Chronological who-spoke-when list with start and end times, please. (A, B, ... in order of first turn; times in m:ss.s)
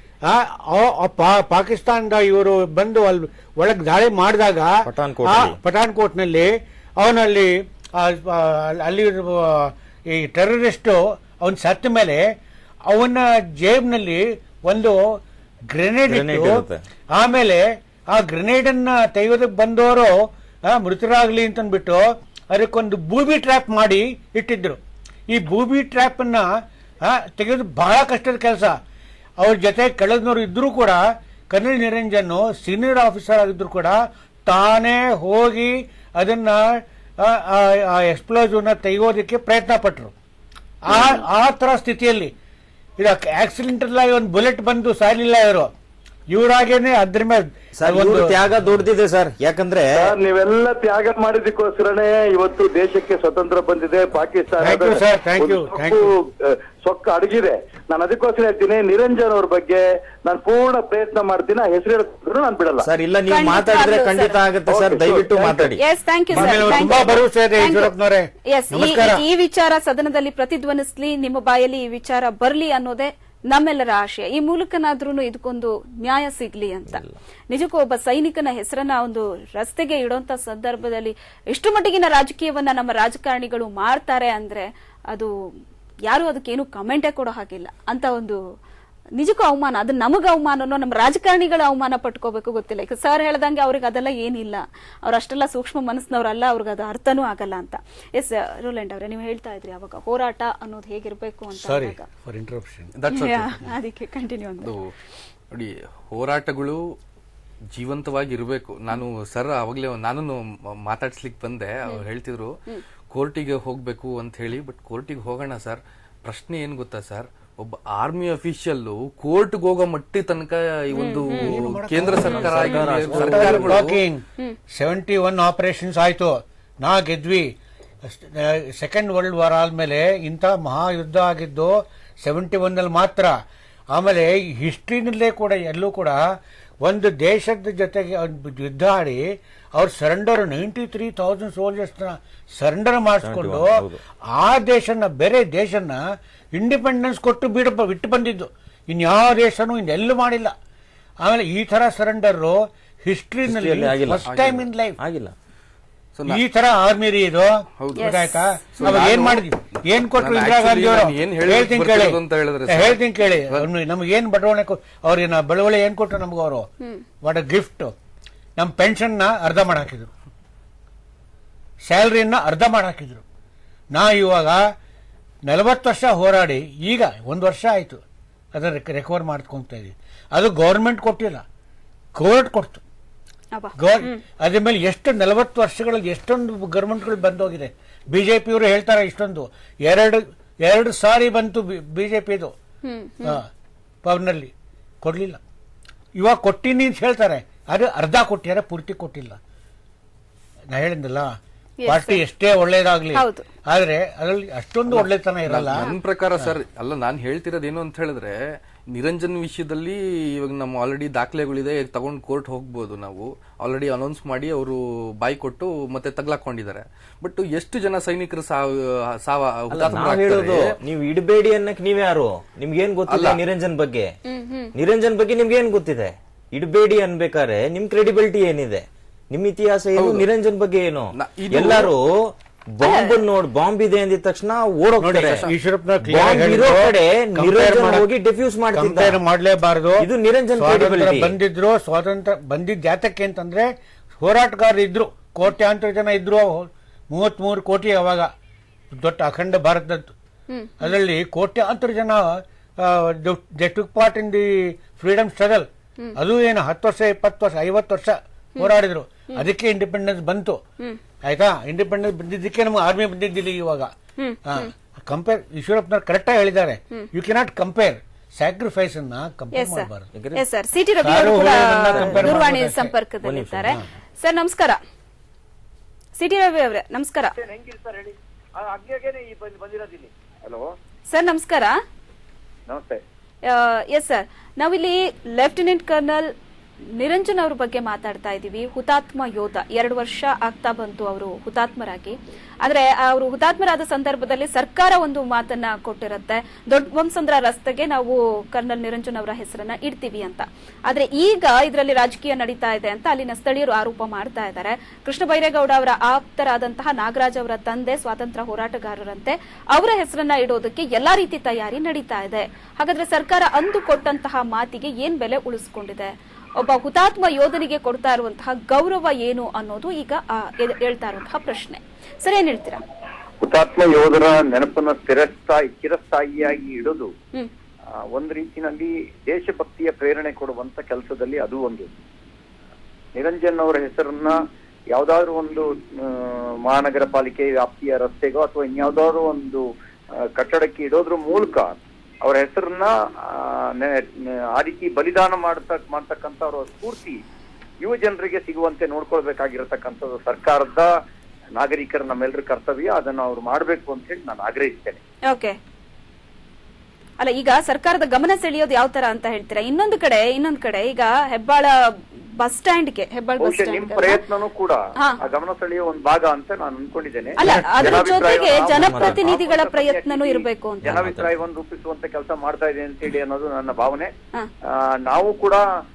0:00.3-0:12.2 A
0:04.8-0:05.6 B
0:12.9-0:15.0 A
0:15.7-0:20.2 A
0:16.1-0:16.8 B
0:20.7-0:26.5 A
0:27.0-0:28.8 A
0:29.4-0:40.1 A
0:40.8-0:42.3 A
0:43.0-0:45.7 A
0:46.3-0:48.4 A
0:47.8-0:50.1 B
0:50.0-1:02.9 C
0:54.6-0:56.1 A
1:02.8-1:05.8 B
1:03.3-1:04.4 D
1:04.7-1:05.7 C
1:05.8-1:07.9 D
1:06.3-1:09.2 A
1:06.5-1:07.0 C
1:08.5-1:25.3 D
1:26.1-1:28.4 D
1:29.2-1:42.1 D
1:41.5-1:43.0 A
1:43.0-1:43.8 E
1:43.1-1:44.7 D
1:44.6-1:44.9 E
1:45.5-1:46.8 E
1:47.7-1:52.6 E
1:53.1-2:04.0 E
2:01.0-2:01.6 D
2:01.3-2:07.5 A
2:02.2-2:03.8 B
2:08.1-2:13.4 A
2:13.9-2:16.2 A
2:16.8-2:19.2 A
2:19.8-2:26.0 A
2:23.2-2:24.0 B
2:26.5-2:30.5 A
2:31.2-2:35.0 A
2:33.5-2:34.3 B
2:34.3-2:34.6 E
2:35.0-2:35.3 B
2:36.2-2:36.4 E
2:36.3-2:46.7 A
2:37.8-2:38.2 E
2:38.0-2:38.4 D
2:38.8-2:43.7 E
2:47.2-2:47.9 A
2:48.6-2:50.1 A
2:51.9-2:53.2 A
2:53.9-2:54.6 A
2:55.5-2:58.0 A
2:58.5-3:01.4 A
3:02.2-3:02.8 A
3:03.6-3:04.2 D
3:03.8-3:12.5 A
3:12.8-3:13.4 D
3:14.0-3:14.5 A
3:15.0-3:15.4 A
3:16.2-3:19.4 A
3:20.7-3:21.3 A
3:21.8-3:22.2 D
3:21.9-3:26.5 A
3:23.2-3:23.4 D
3:24.9-3:40.7 E
3:39.7-3:44.1 B
3:43.1-3:43.4 E
3:44.3-3:44.7 D
3:44.8-3:55.5 B
3:50.0-3:50.2 E
3:51.2-3:51.9 E
3:52.8-3:53.1 D
3:55.0-3:58.1 A
3:56.0-3:59.2 B
3:58.7-4:03.7 A
4:00.0-4:01.4 B
4:04.2-4:08.3 A
4:08.9-4:10.1 A
4:10.5-4:10.9 D
4:10.8-4:20.6 A
4:21.3-4:23.9 A
4:24.2-4:24.7 D
4:24.4-4:30.1 A
4:29.5-4:34.8 D
4:30.1-4:30.4 B
4:31.0-4:32.9 A
4:31.9-4:32.4 B
4:33.2-4:33.8 B
4:36.2-4:37.4 D
4:37.4-4:40.7 C
4:41.1-4:41.7 D
4:42.7-4:43.0 C
4:43.5-4:46.3 D
4:47.0-5:22.8 D
5:23.4-5:27.1 C
5:28.1-5:31.9 C
5:33.2-5:34.4 C
5:34.9-5:39.6 C
5:40.3-5:47.2 C
5:47.8-5:50.9 C
5:51.6-5:55.0 C
5:55.3-5:55.6 D
5:57.2-6:01.7 D
6:02.4-6:04.2 D
6:03.4-6:14.1 C
6:07.4-6:10.9 D
6:07.4-6:07.8 A
6:08.7-6:09.2 B
6:10.8-6:11.4 B
6:14.7-6:15.6 C